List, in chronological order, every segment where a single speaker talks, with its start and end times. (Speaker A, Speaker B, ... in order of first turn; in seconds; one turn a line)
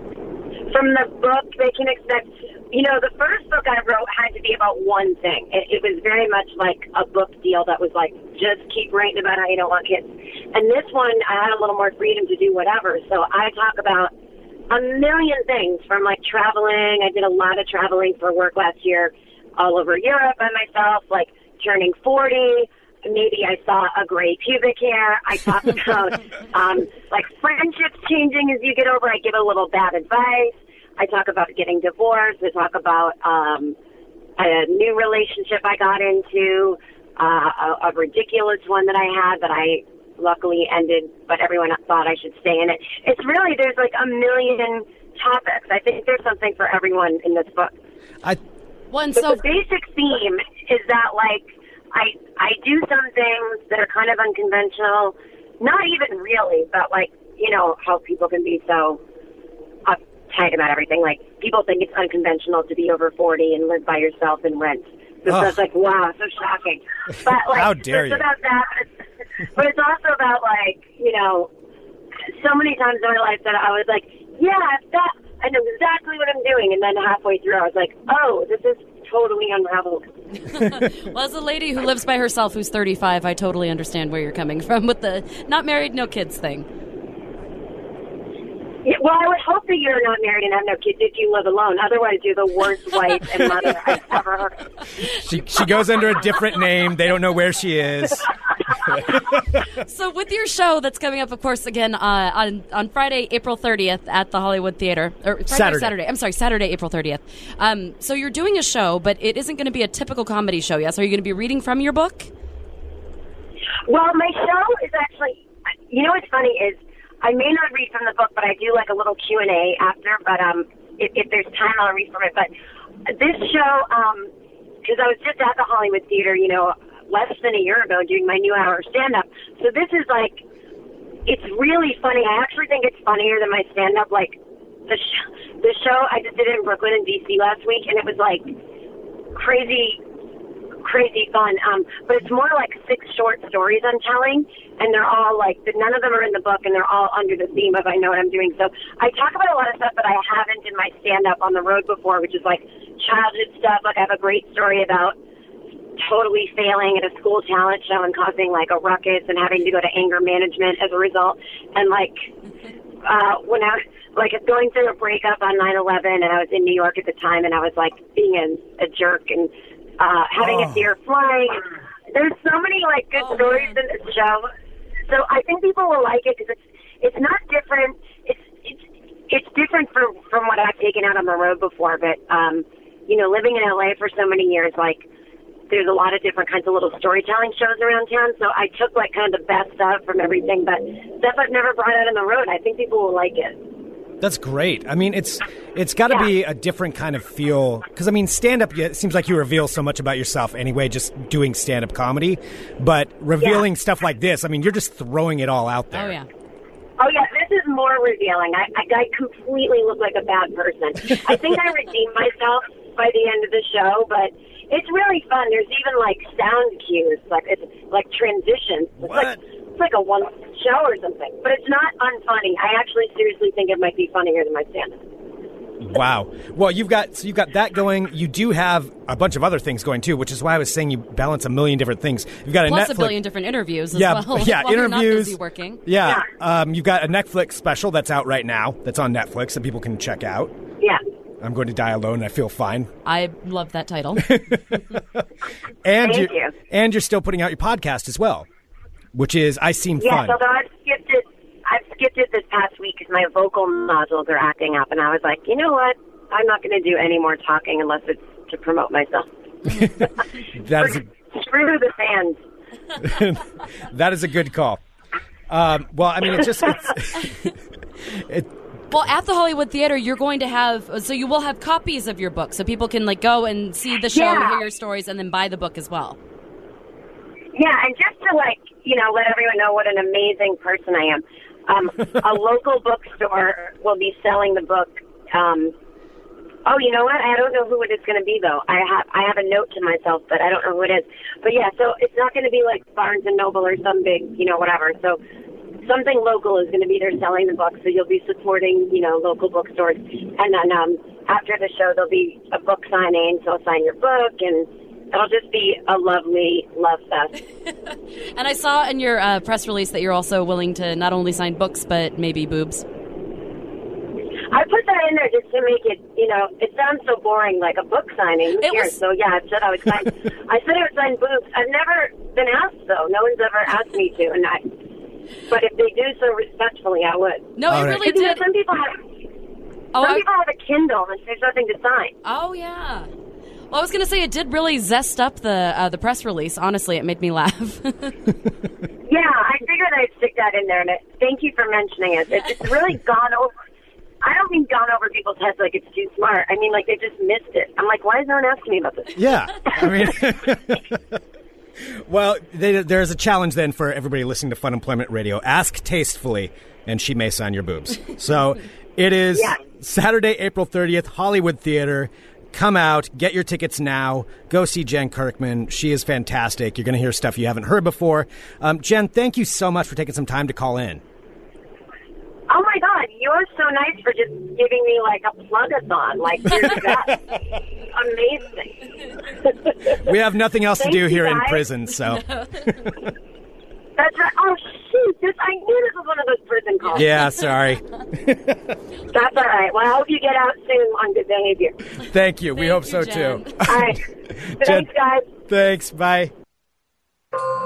Speaker A: 0.7-14.1
Speaker A: 14.7-33.8
Speaker A: 34.4-47.7
Speaker B: 48.9-49.4
Speaker A: 49.1-59.0
Speaker A: 59.9-68.9
Speaker C: 65.3-65.5
Speaker C: 67.4-68.2
Speaker A: 69.4-71.5
Speaker A: 72.3-80.1
Speaker B: 80.4-86.7
Speaker A: 88.8-94.6
Speaker C: 95.1-98.3
Speaker B: 99.7-112.3
Speaker C: 105.5-105.9
Speaker A: 113.8-122.5
Speaker A: 123.0-124.3
Speaker A: 124.8-130.4
Speaker A: 131.2-138.5
Speaker A: 139.3-140.0
Speaker A: 140.8-155.2
Speaker A: 156.0-162.3
Speaker A: 163.0-174.5
Speaker B: 173.2-173.8
Speaker A: 175.1-185.1
Speaker A: 185.7-193.6
Speaker C: 194.2-206.2
Speaker B: 205.9-206.3
Speaker A: 207.0-225.0
Speaker C: 219.0-219.4
Speaker C: 225.8-233.2
Speaker B: 232.6-235.8
Speaker C: 233.9-240.5
Speaker C: 241.4-242.9
Speaker B: 243.0-244.4
Speaker C: 244.2-245.2
Speaker C: 245.8-248.5
Speaker A: 246.0-246.5
Speaker C: 249.1-250.4
Speaker A: 250.0-260.1
Speaker C: 259.7-261.0
Speaker A: 260.7-262.4
Speaker C: 263.0-264.8
Speaker C: 265.5-267.3
Speaker C: 268.1-268.5
Speaker B: 268.9-276.2
Speaker A: 274.1-274.6
Speaker A: 277.5-285.7
Speaker A: 286.6-295.2
Speaker A: 295.8-307.4
Speaker B: 308.3-312.9
Speaker A: 314.5-324.7
Speaker B: 318.6-319.0
Speaker A: 325.5-329.0
Speaker B: 327.6-328.4
Speaker C: 327.7-328.1
Speaker B: 329.9-330.2
Speaker A: 330.0-332.1
Speaker B: 332.2-333.1
Speaker B: 333.7-338.2
Speaker A: 339.1-343.5
Speaker A: 344.2-349.9
Speaker C: 349.1-351.1
Speaker C: 351.8-371.0
Speaker A: 372.5-377.4
Speaker A: 377.9-378.8
Speaker A: 379.3-380.0
Speaker C: 379.9-382.2
Speaker A: 380.8-381.6
Speaker B: 382.4-382.6
Speaker A: 384.0-387.2
Speaker C: 386.9-388.6
Speaker A: 389.1-391.8
Speaker C: 392.0-394.9
Speaker B: 392.5-393.6
Speaker A: 393.6-394.0
Speaker A: 394.6-395.3
Speaker C: 395.5-396.3